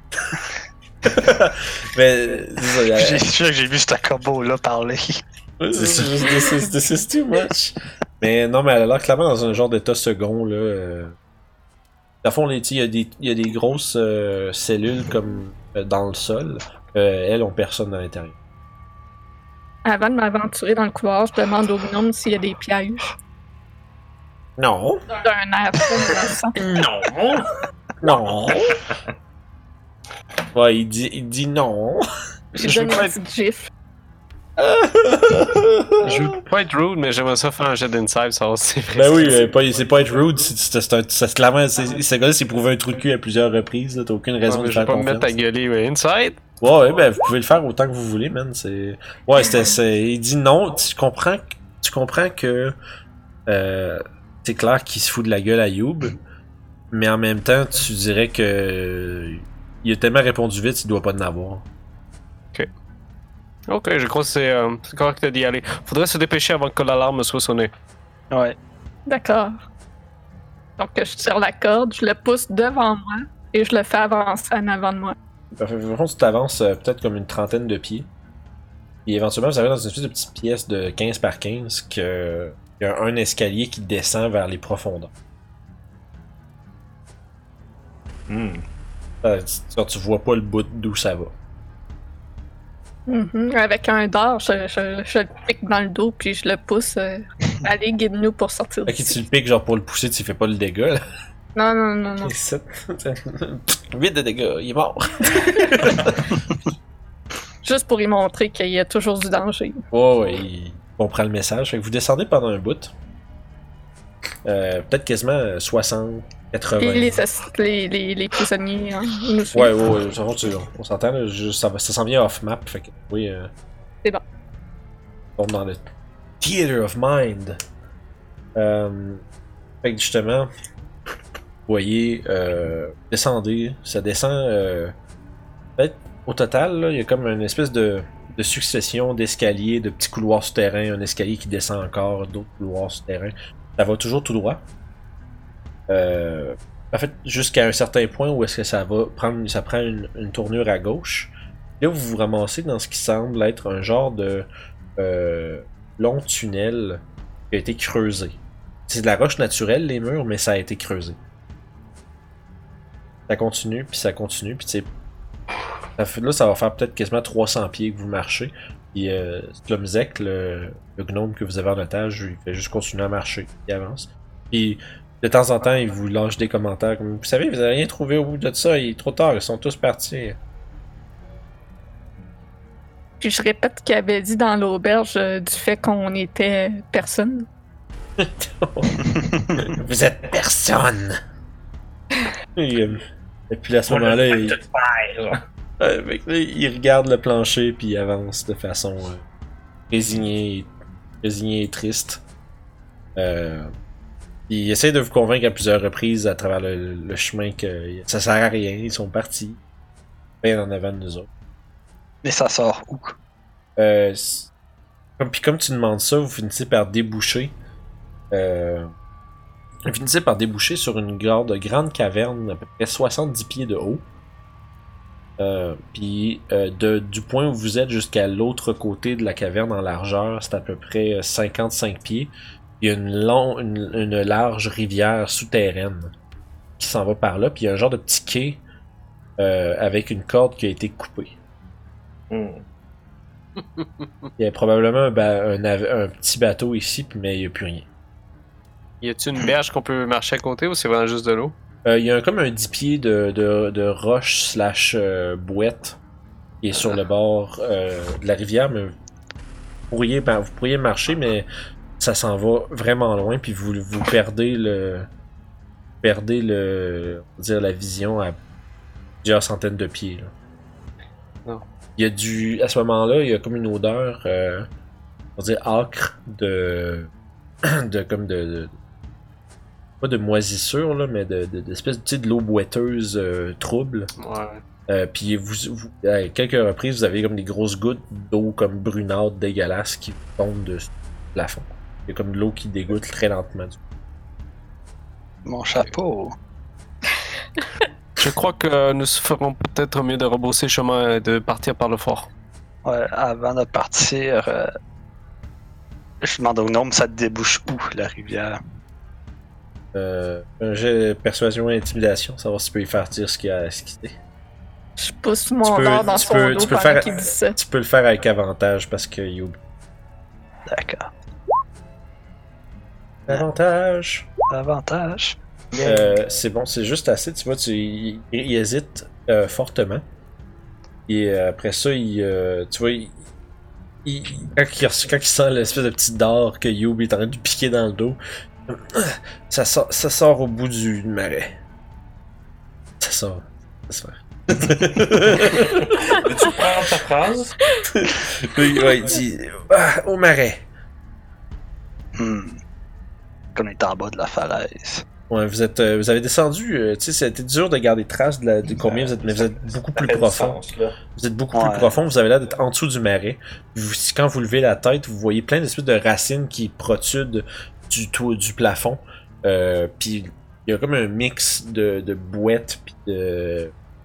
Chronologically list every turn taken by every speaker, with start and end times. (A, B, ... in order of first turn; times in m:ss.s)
0:01.0-0:03.2 A
0:02.8-0:05.2 B
0:05.6-0:11.2 A
0:12.2-0:18.4 A
0:19.8-0:23.1 C
0:24.6-0:25.1 A
0:25.2-0:26.6 C
0:26.6-0:27.5 D
0:28.0-0:28.8 A
0:28.1-0:29.0 D
0:30.5-0:32.1 A
0:32.6-0:33.7 C
0:32.6-0:33.1 E
0:34.6-0:36.4 A
0:36.0-0:39.4 E
0:39.0-0:45.3 A
0:44.5-0:46.4 E
0:46.6-0:52.8 A
0:53.5-0:56.2 A
0:56.9-1:01.7 A
1:03.7-1:07.7 E
1:08.3-1:08.6 B
1:09.1-1:09.6 C
1:10.8-1:15.2 C
1:15.6-1:18.1 A
1:19.1-1:25.1 A
1:28.3-1:28.6 D
1:29.2-1:31.3 A
1:33.1-1:39.1 C
1:38.9-1:41.0 A
1:41.6-1:42.3 C
1:42.2-1:46.4 A
1:47.6-1:49.8 C
1:49.9-1:52.9 A
1:54.4-1:57.2 A
1:56.8-1:59.9 C
1:59.5-2:03.5 A
2:05.4-2:05.8 A
2:06.4-2:07.6 A
2:08.6-2:09.2 A
2:09.8-2:10.5 A
2:11.7-2:14.9 A
2:15.8-2:24.6 A
2:25.9-2:41.2 A
2:43.3-2:44.9 A
2:46.0-3:00.4 A
3:03.2-3:07.5 C
3:08.2-3:09.0 A
3:09.5-3:11.2 A
3:12.6-3:14.6 A
3:13.9-3:15.4 D
3:15.8-3:19.2 A
3:19.9-3:20.7 A
3:21.2-3:22.2 A
3:23.2-3:23.7 A
3:24.5-3:29.6 A
3:30.4-3:31.3 A
3:32.2-3:33.2 B
3:33.8-3:34.5 A
3:35.2-3:37.5 A
3:38.3-3:38.9 A
3:39.9-3:44.0 A
3:45.4-3:56.1 A
3:56.8-3:58.6 A
3:59.4-4:01.4 A
4:02.3-4:02.6 D
4:03.6-4:04.3 E
4:04.4-4:07.9 A
4:09.0-4:11.5 E
4:11.9-4:16.0 A
4:16.6-4:19.0 A
4:16.8-4:17.0 E
4:19.9-4:21.5 A
4:22.0-4:25.1 A
4:26.0-4:28.4 A
4:29.2-4:30.3 A
4:32.0-4:34.7 A
4:35.4-4:37.1 A
4:37.6-4:38.7 A
4:40.0-4:44.1 A
4:44.2-4:44.6 E
4:44.9-4:53.8 A
4:55.5-4:56.4 B
4:58.2-5:02.3 E
5:02.8-5:04.8 B
5:06.2-5:08.6 B
5:09.9-5:14.2 A
5:15.0-5:17.6 C
5:15.6-5:19.6 A
5:20.7-5:21.1 B
5:23.3-5:24.3 A
5:24.5-5:25.9 B
5:25.8-5:30.0 A
5:31.1-5:33.2 A
5:34.0-5:41.6 A
5:43.0-5:46.2 A
5:46.2-5:47.5 D
5:47.9-5:50.6 A
5:52.2-5:52.6 B
5:53.6-5:55.0 B
5:55.3-6:13.7 A
5:58.8-6:01.0 D
6:01.5-6:01.9 B